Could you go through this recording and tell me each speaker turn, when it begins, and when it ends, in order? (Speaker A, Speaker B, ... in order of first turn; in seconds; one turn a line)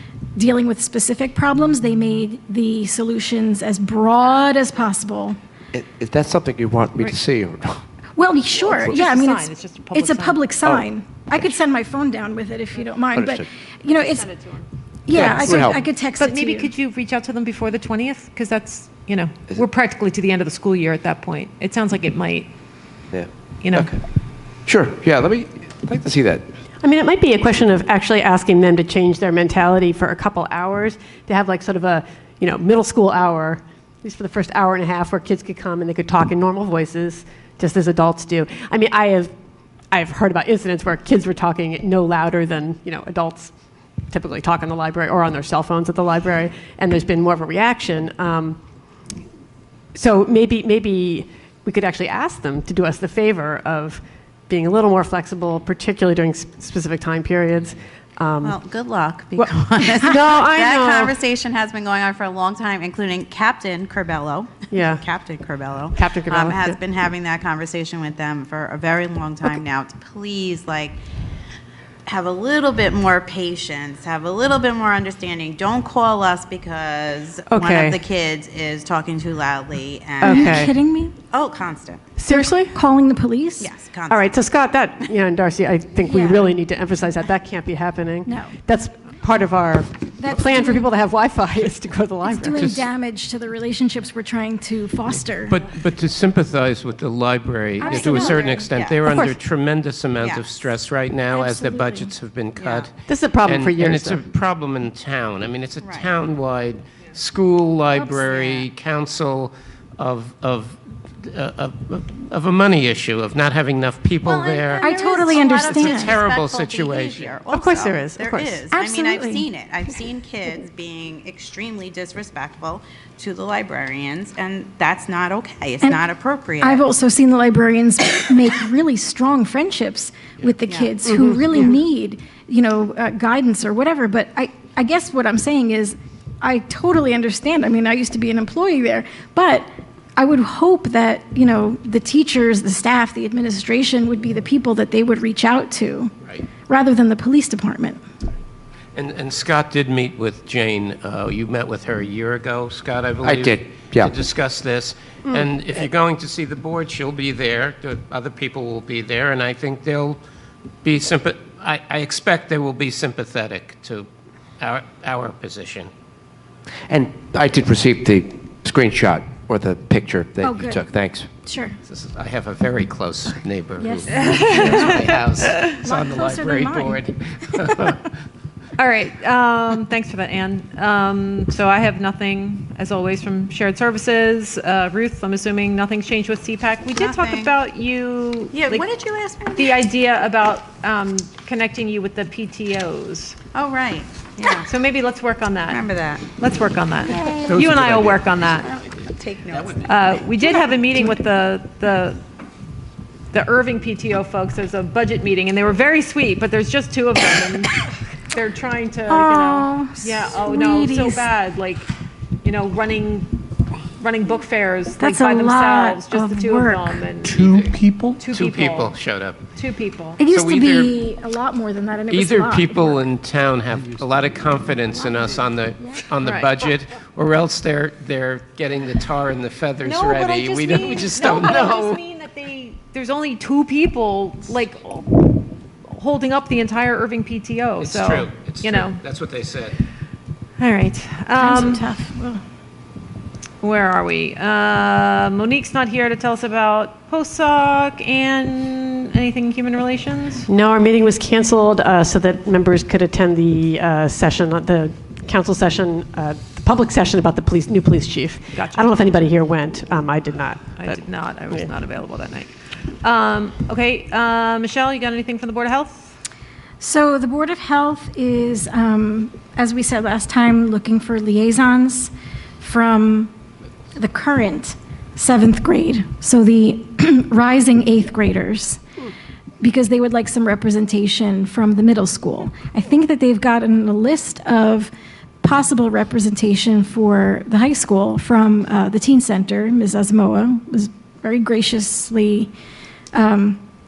Speaker A: 0.4-5.4
Speaker B: 5.7-7.8
Speaker A: 8.2-14.3
Speaker C: 8.7-10.4
Speaker B: 13.1-13.5
Speaker C: 14.0-14.6
Speaker A: 15.1-16.7
Speaker B: 15.1-15.8
Speaker C: 15.2-22.5
Speaker B: 23.1-24.0
Speaker C: 23.6-23.9
Speaker B: 24.7-26.4
Speaker D: 26.8-39.3
Speaker D: 39.9-43.5
Speaker D: 44.1-48.6
Speaker D: 49.9-58.6
Speaker E: 58.4-71.0
Speaker D: 59.4-61.2
Speaker D: 64.7-65.0
Speaker D: 65.9-66.8
Speaker E: 72.0-80.7
Speaker D: 77.5-78.0
Speaker D: 80.2-80.7
Speaker A: 80.2-81.1
Speaker E: 81.3-82.0
Speaker D: 82.2-82.8
Speaker A: 82.3-83.7
Speaker E: 83.6-84.4
Speaker D: 84.1-92.7
Speaker A: 86.1-86.5
Speaker A: 88.2-88.5
Speaker A: 90.2-90.9
Speaker A: 92.2-95.6
Speaker F: 92.6-92.8
Speaker F: 95.5-117.4
Speaker A: 97.8-99.3
Speaker E: 97.8-99.2
Speaker E: 100.2-100.5
Speaker A: 101.3-102.1
Speaker E: 102.6-102.9
Speaker D: 103.0-104.3
Speaker E: 105.8-106.1
Speaker E: 108.2-108.6
Speaker E: 114.2-126.8
Speaker A: 114.8-116.2
Speaker D: 117.5-118.6
Speaker A: 118.7-119.5
Speaker A: 126.6-146.1
Speaker E: 130.7-131.0
Speaker D: 131.1-131.6
Speaker A: 146.7-148.0
Speaker F: 148.9-160.2
Speaker B: 153.2-154.1
Speaker F: 160.8-164.1
Speaker F: 164.6-165.9
Speaker B: 166.9-171.3
Speaker A: 170.4-170.8
Speaker A: 171.4-171.8
Speaker F: 171.8-178.1
Speaker A: 173.8-175.1
Speaker C: 174.1-175.6
Speaker A: 175.8-177.1
Speaker C: 178.8-188.9
Speaker E: 186.9-187.5
Speaker E: 188.5-189.8
Speaker C: 189.5-193.4
Speaker E: 193.5-194.7
Speaker C: 194.7-198.7
Speaker E: 195.7-196.3
Speaker F: 197.5-198.2
Speaker E: 198.6-200.0
Speaker C: 199.8-202.2
Speaker C: 203.3-211.9
Speaker A: 209.1-211.3
Speaker C: 212.4-213.4
Speaker C: 214.0-217.5
Speaker A: 215.0-217.0
Speaker F: 217.3-219.4
Speaker C: 218.1-218.9
Speaker C: 219.5-220.2
Speaker A: 220.2-223.0
Speaker F: 220.2-220.9
Speaker F: 222.1-232.0
Speaker C: 226.2-226.5
Speaker C: 229.8-239.0
Speaker F: 237.8-239.8
Speaker C: 240.6-241.8
Speaker A: 241.4-242.4
Speaker C: 243.6-250.5
Speaker D: 250.5-261.7
Speaker C: 258.5-259.0
Speaker C: 260.8-262.5
Speaker C: 263.0-266.1
Speaker A: 266.8-273.3
Speaker A: 274.0-278.8
Speaker A: 279.6-284.9
Speaker A: 285.4-292.5
Speaker A: 293.1-293.6